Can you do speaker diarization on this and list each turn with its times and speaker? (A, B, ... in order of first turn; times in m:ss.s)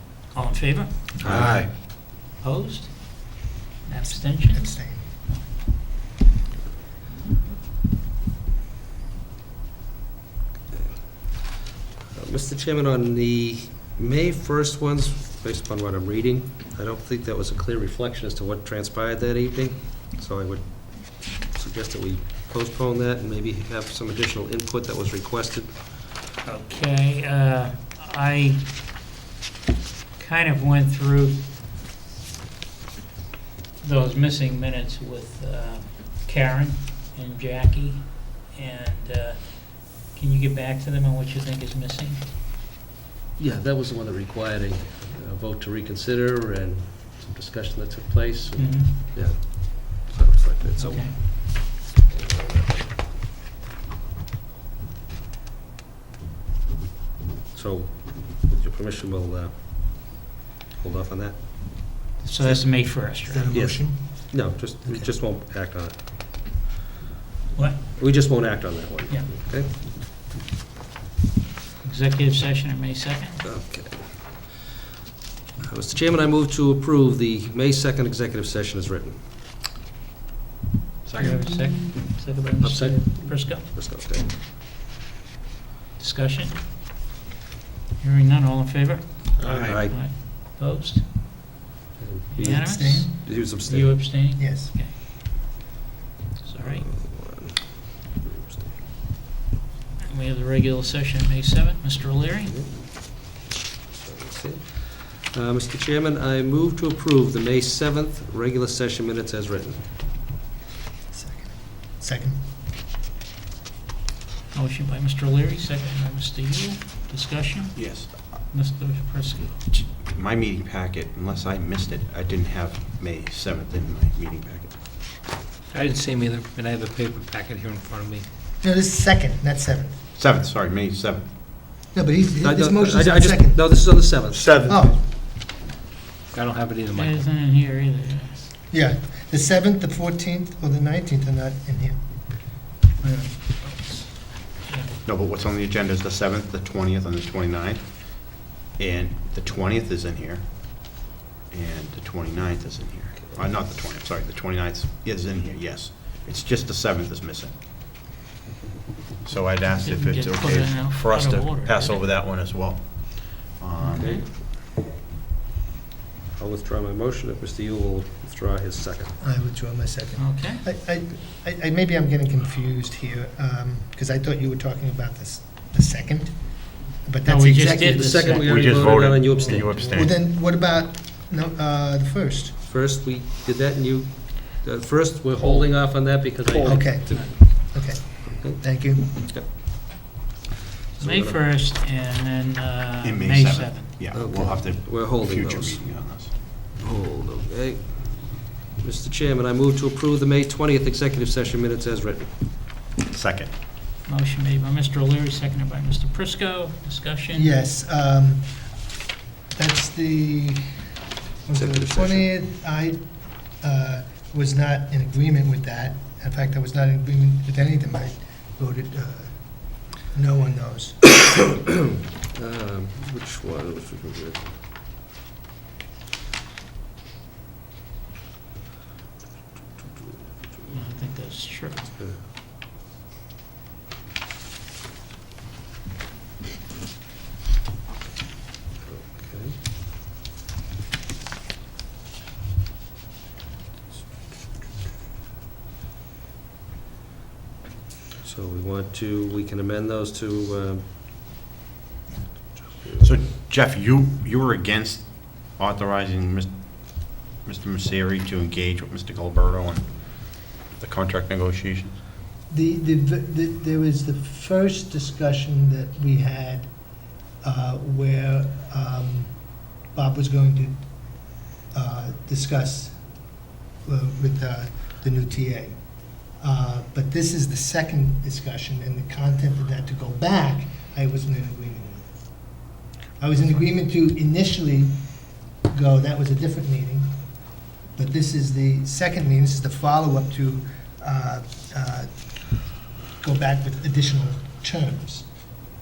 0:00.3-0:05.4 A
0:01.2-0:01.7 B
0:01.2-0:01.5 C
0:04.0-0:05.1 D
0:11.0-0:11.4 C
0:12.1-0:25.8 C
0:26.4-0:28.8 A
0:30.2-0:31.4 A
0:33.8-0:42.2 A
0:43.4-0:52.9 C
0:48.6-0:49.3 A
0:50.8-0:51.2 A
0:57.5-1:02.0 C
1:02.2-1:03.6 A
1:03.3-1:05.1 D
1:03.5-1:06.1 C
1:07.5-1:07.9 A
1:08.0-1:09.7 C
1:11.8-1:13.5 A
1:13.4-1:14.6 C
1:15.6-1:19.2 C
1:21.1-1:21.7 E
1:21.2-1:23.7 A
1:22.6-1:24.3 C
1:26.0-1:26.6 A
1:28.0-1:31.1 A
1:29.4-1:29.7 E
1:29.4-1:29.9 B
1:29.6-1:30.0 C
1:32.0-1:34.2 C
1:32.3-1:35.0 A
1:32.4-1:33.1 D
1:34.4-1:34.7 D
1:36.4-1:36.9 A
1:36.6-1:38.8 C
1:40.0-1:42.5 A
1:42.5-1:43.3 C
1:43.9-1:49.8 C
1:51.1-1:52.4 D
1:54.5-1:59.6 A
1:57.8-1:58.4 B
1:59.7-2:04.8 B
2:05.7-2:08.3 E
2:08.6-2:10.0 D
2:10.2-2:11.3 B
2:11.9-2:14.1 D
2:12.4-2:14.7 C
2:14.4-2:14.8 B
2:14.4-2:14.8 E
2:14.7-2:15.0 D
2:16.3-2:17.3 E
2:17.0-2:18.5 A
2:18.7-2:22.0 D
2:23.0-2:24.9 A
2:25.0-2:37.5 B
2:39.2-2:44.2 B
2:39.8-2:42.0 A
2:43.8-2:44.2 A
2:43.9-2:44.2 C
2:46.4-2:49.2 C
2:49.2-2:58.4 D
2:50.2-2:50.6 A
2:57.2-2:59.8 A
2:58.0-2:59.8 C
2:58.4-3:00.2 B
2:59.8-3:02.6 D
3:02.6-3:07.3 C
3:05.4-3:05.7 E
3:06.4-3:07.4 E
3:06.6-3:09.0 D
3:08.0-3:09.5 C
3:11.0-3:11.4 C
3:11.0-3:14.1 A
3:13.0-3:16.3 B
3:14.1-3:15.8 C
3:16.8-3:22.7 C
3:23.1-3:23.5 B
3:24.1-3:27.6 A
3:27.3-3:28.9 D
3:29.5-3:30.9 D
3:31.4-3:41.0 D
3:31.6-3:32.3 C
3:42.3-3:44.5 C
3:50.7-3:51.9 A
3:52.0-3:52.2 C
3:58.8-3:59.6 C
4:08.2-4:10.8 C
4:12.6-4:13.2 C
4:13.0-4:21.9 B
4:22.5-4:33.3 D
4:33.8-4:55.3 D